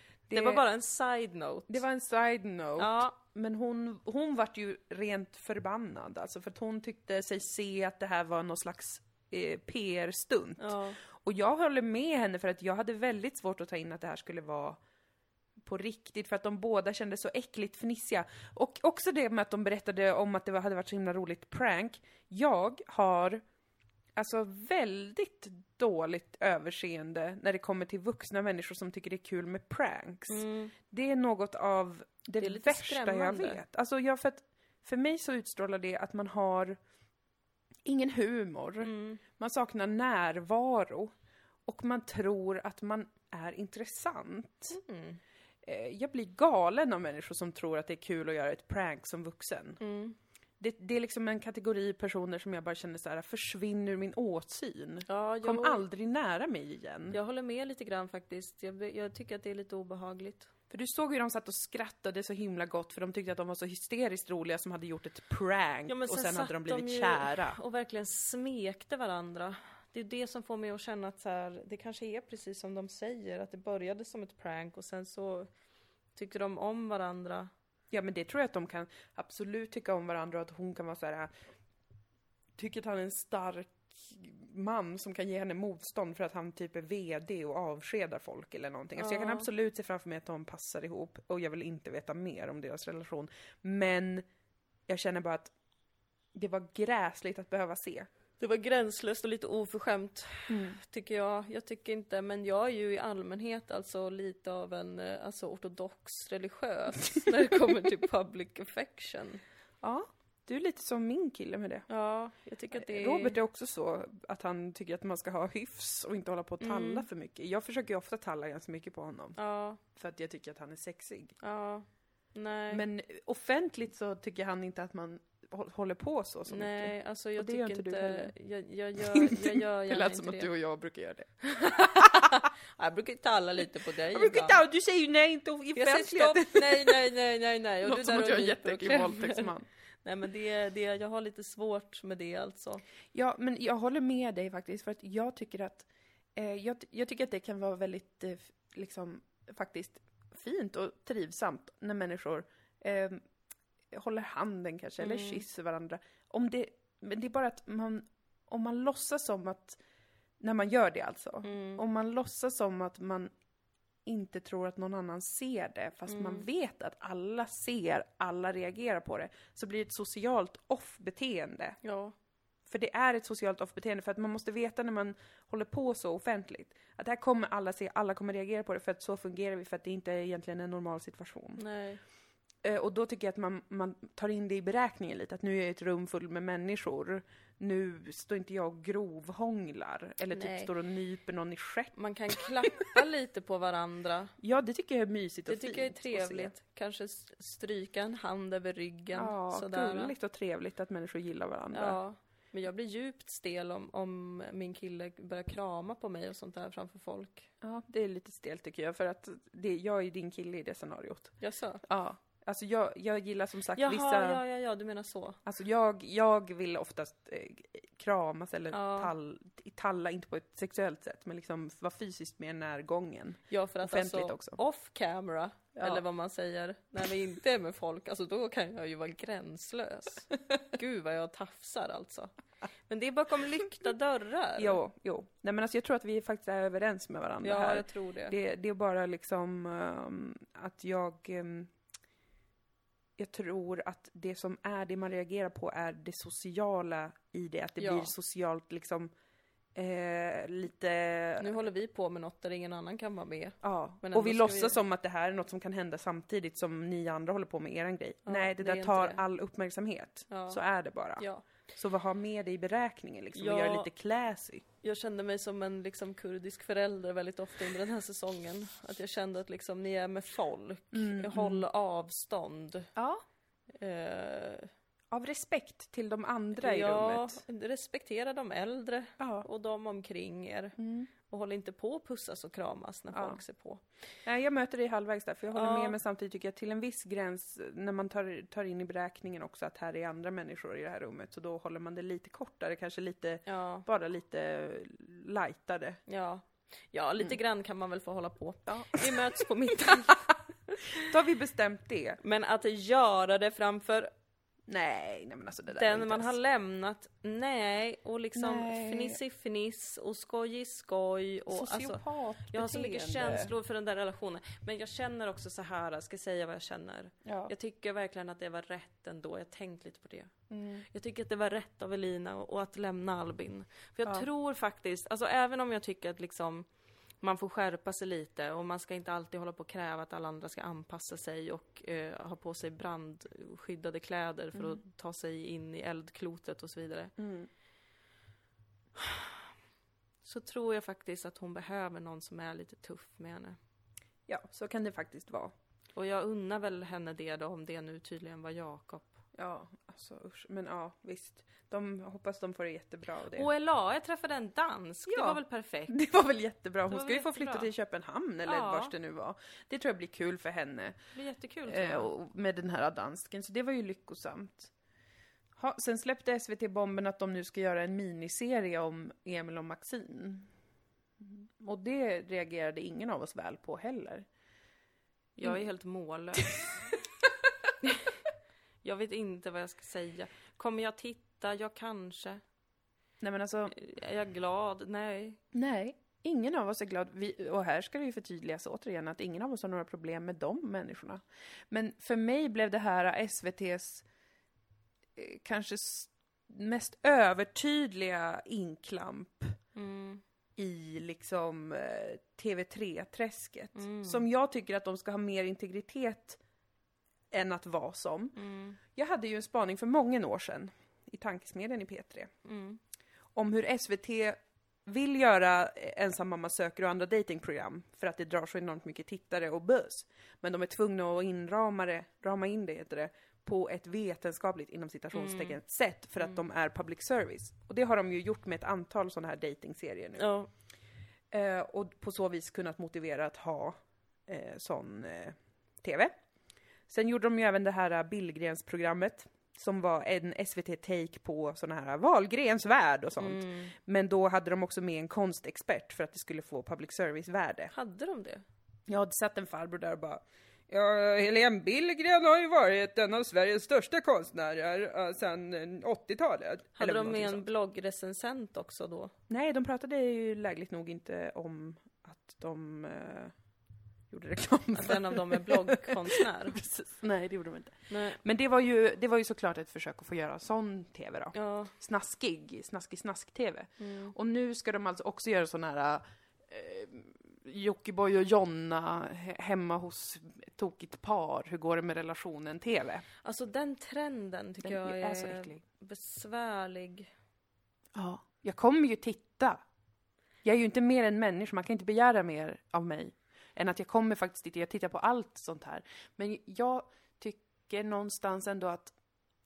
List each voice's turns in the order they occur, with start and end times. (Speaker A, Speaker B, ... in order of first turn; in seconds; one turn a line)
Speaker A: 0.3-0.6
Speaker B: 0.3-1.8
Speaker A: 1.7-14.8
Speaker B: 2.8-3.1
Speaker B: 10.6-11.0
Speaker A: 15.6-23.4
Speaker A: 24.1-36.8
Speaker B: 30.3-30.7
Speaker B: 32.4-33.6
Speaker A: 37.8-41.1
Speaker B: 38.8-39.2
Speaker A: 41.6-44.8
Speaker B: 44.7-45.2
Speaker A: 45.6-49.8
Speaker B: 49.8-50.1
Speaker A: 50.6-57.2
Speaker B: 55.1-55.8
Speaker B: 57.1-60.5
Speaker A: 60.7-67.6
Speaker B: 65.9-75.5
Speaker B: 76.1-77.5
Speaker A: 77.9-81.3
Speaker A: 82.6-94.2
Speaker B: 89.0-89.5
Speaker A: 94.9-95.5
Speaker A: 96.3-98.1
Speaker B: 98.4-109.4
Speaker A: 100.5-100.8
Speaker A: 109.8-111.9
Speaker B: 111.9-113.4
Speaker A: 112.7-119.4
Speaker B: 116.6-117.0
Speaker B: 119.3-119.8
Speaker A: 119.9-121.3
Speaker B: 121.4-122.8
Speaker A: 122.7-128.3
Speaker B: 126.5-130.5
Speaker A: 129.0-132.4
Speaker B: 131.4-134.6
Speaker A: 134.1-137.0
Speaker B: 135.7-139.5
Speaker A: 137.8-139.7
Speaker B: 140.0-142.8
Speaker A: 143.1-153.2
Speaker A: 153.9-159.8
Speaker B: 155.0-155.4
Speaker A: 160.4-163.3
Speaker B: 161.4-161.8
Speaker A: 164.1-171.8
Speaker B: 166.1-166.4
Speaker B: 171.8-172.1
Speaker A: 172.7-181.6
Speaker B: 181.6-182.0
Speaker A: 182.6-191.9
Speaker B: 190.3-190.7
Speaker B: 191.9-194.3
Speaker A: 194.4-196.5
Speaker B: 195.5-200.1
Speaker A: 199.1-202.0
Speaker B: 201.7-207.5
Speaker A: 207.6-211.3
Speaker B: 211.4-211.8
Speaker A: 211.8-214.4
Speaker B: 213.7-215.4
Speaker A: 215.4-224.6
Speaker B: 218.7-219.1
Speaker B: 223.5-232.3
Speaker A: 225.7-226.0
Speaker B: 232.9-234.8
Speaker A: 234.6-241.7
Speaker B: 237.4-238.3
Speaker A: 243.2-249.1
Speaker B: 247.8-248.1
Speaker A: 249.7-251.5
Speaker B: 251.4-254.8
Speaker A: 253.6-264.6
Speaker B: 258.2-259.2
Speaker B: 260.3-260.6
Speaker B: 261.2-261.4
Speaker B: 263.3-263.9
Speaker B: 264.8-272.9
Speaker A: 270.9-271.6
Speaker A: 272.9-273.2
Speaker B: 273.8-274.7
Speaker A: 275.1-277.4
Speaker B: 276.6-283.8
Speaker A: 279.2-279.4
Speaker A: 280.8-281.1
Speaker A: 283.1-283.4
Speaker A: 284.2-296.0
Speaker B: 285.5-285.9
Speaker B: 293.4-293.8
Speaker B: 296.1-301.1
Speaker A: 298.7-300.3
Speaker A: 300.9-302.2
Speaker B: 302.2-304.1
Speaker A: 304.7-306.4
Speaker B: 305.7-312.0
Speaker A: 308.3-309.2
Speaker A: 311.5-313.5
Speaker B: 312.5-320.3
Speaker A: 317.2-317.5
Speaker A: 320.5-320.9
Speaker B: 320.9-326.6
Speaker B: 327.2-337.1
Speaker A: 334.5-334.8
Speaker A: 337.2-337.5
Speaker B: 339.0-339.2
Speaker B: 340.2-343.6
Speaker A: 344.3-345.5
Speaker B: 345.9-349.2
Speaker A: 349.3-353.5
Speaker B: 353.3-356.0
Speaker A: 355.1-361.0
Speaker B: 356.9-357.7
Speaker B: 358.4-358.9
Speaker B: 361.1-362.1
Speaker A: 361.7-364.7
Speaker A: 365.6-370.5
Speaker A: 371.2-374.3
Speaker B: 375.4-376.6
Speaker B: 377.8-378.1
Speaker B: 378.8-382.4
Speaker A: 383.2-383.7
Speaker B: 383.7-385.4
Speaker A: 385.5-394.1
Speaker A: 395.1-399.6
Speaker B: 399.7-400.2
Speaker A: 400.6-406.4
Speaker B: 403.8-404.2
Speaker A: 407.3-408.4
Speaker B: 408.4-408.8
Speaker A: 408.9-412.3
Speaker B: 412.4-412.8
Speaker A: 413.3-430.3
Speaker B: 425.1-425.6
Speaker B: 430.2-430.5
Speaker A: 431.3-436.1
Speaker A: 436.9-447.7
Speaker B: 443.2-443.7
Speaker B: 447.7-448.4
Speaker A: 448.9-457.4
Speaker B: 456.8-459.1
Speaker A: 459.3-463.3
Speaker A: 464.1-483.0
Speaker B: 464.7-466.6
Speaker B: 467.9-468.2
Speaker B: 471.3-471.7
Speaker B: 473.8-474.1
Speaker B: 483.2-487.1
Speaker A: 484.6-485.6
Speaker A: 487.9-489.6
Speaker A: 490.4-498.9